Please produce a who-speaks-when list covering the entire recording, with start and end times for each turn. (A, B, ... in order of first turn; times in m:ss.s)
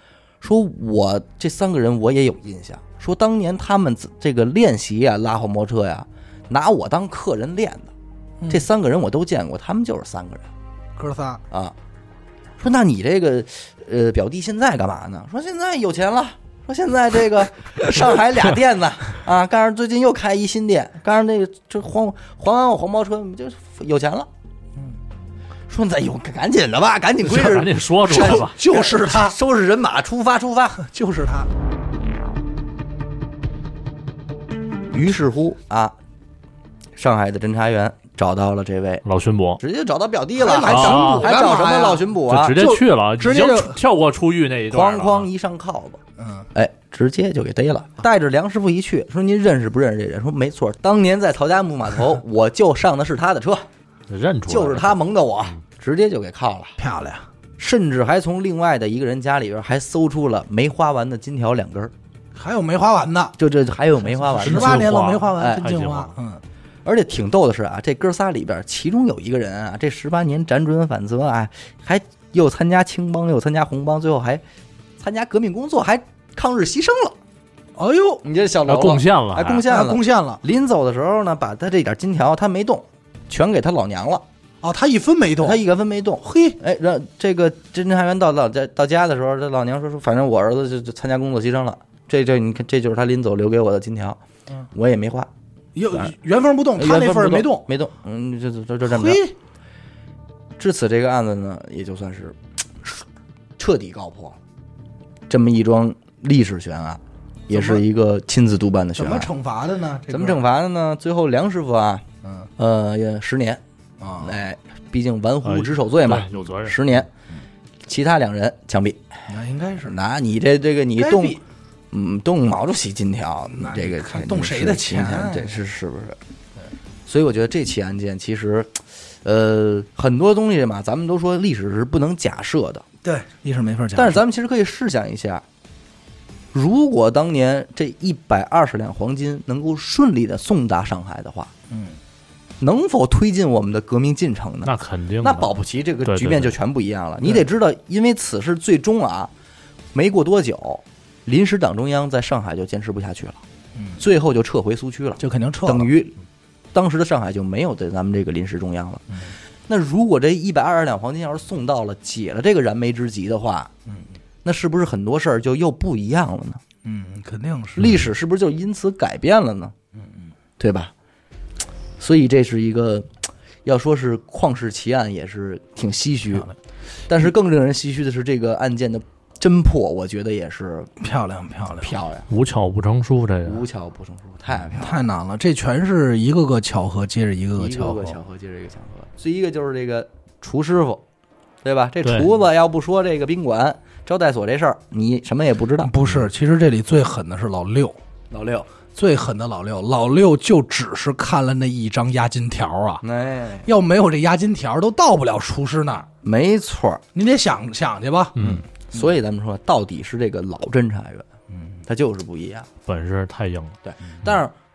0:00.4-0:07.9 A
0:08.5-0:10.5 A
0:11.0-0:11.4 B
0:12.6-0:24.3 A
0:25.7-0:30.8 A
0:27.2-0:28.6 C
0:28.1-0:29.4 B
0:30.8-0:31.5 B
0:34.9-0:36.0 A
0:37.0-0:39.0 A
0:39.0-0:39.6 C
0:39.6-0:42.6 A
0:40.4-0:43.8 B
0:40.7-0:41.6 C
0:42.3-0:45.3 C
0:44.7-0:46.0 A
0:46.2-0:46.5 B
0:46.5-0:53.7 A
0:54.1-0:55.0 C
0:54.5-0:56.8 A
0:56.8-0:57.3 B
0:57.6-1:01.9 A
1:02.4-1:03.4 B
1:03.4-1:05.6 A
1:04.2-1:06.4 B
1:04.4-1:06.2 C
1:06.8-1:14.4 A
1:15.0-1:17.2 A
1:17.8-1:18.2 B
1:18.2-1:24.2 A
1:18.7-1:19.6 C
1:19.6-1:20.4 B
1:24.6-1:25.6 B
1:25.4-1:34.2 A
1:26.2-1:26.6 B
1:34.7-1:35.3 A
1:35.8-1:37.7 B
1:36.8-1:39.2 A
1:38.8-1:39.4 B
1:40.6-1:43.0 A
1:43.6-1:44.4 A
1:45.3-1:49.3 A
1:47.5-1:47.8 B
1:49.0-1:50.4 B
1:50.1-1:52.0 A
1:52.2-1:52.5 B
1:52.6-1:53.6 A
1:54.0-1:54.3 B
1:54.2-1:57.1 A
1:55.4-1:56.8 C
1:57.9-1:59.0 A
1:59.3-2:00.0 B
1:59.8-2:01.4 A
2:01.0-2:01.4 B
2:01.9-2:06.2 A
2:03.6-2:05.6 B
2:07.1-2:12.8 A
2:13.0-2:14.2 B
2:14.0-2:15.4 A
2:16.5-2:21.5 A
2:21.7-2:22.0 B
2:22.6-2:29.3 A
2:24.6-2:25.5 C
2:26.0-2:26.6 C
2:29.9-2:33.4 A
2:34.0-2:36.2 A
2:35.2-2:35.9 B
2:36.7-2:43.7 A
2:44.4-2:46.6 A
2:46.8-2:48.0 B
2:47.8-2:49.7 A
2:50.6-2:50.9 A
2:52.0-2:53.1 A
2:53.6-2:56.5 A
2:57.1-3:00.9 A
3:01.0-3:01.9 B
3:01.8-3:02.3 A
3:02.3-3:03.6 C
3:03.4-3:05.0 A
3:04.8-3:08.2 B
3:07.6-3:11.0 A
3:11.6-3:15.9 A
3:15.8-3:18.0 B
3:18.3-3:18.7 A
3:18.9-3:23.0 B
3:23.0-3:23.7 A
3:23.6-3:26.1 B
3:26.2-3:27.0 A
3:27.1-3:28.4 B
3:28.4-3:28.6 C
3:28.4-3:31.3 A
3:31.9-3:32.7 A
3:32.8-3:33.8 C
3:33.8-3:34.5 A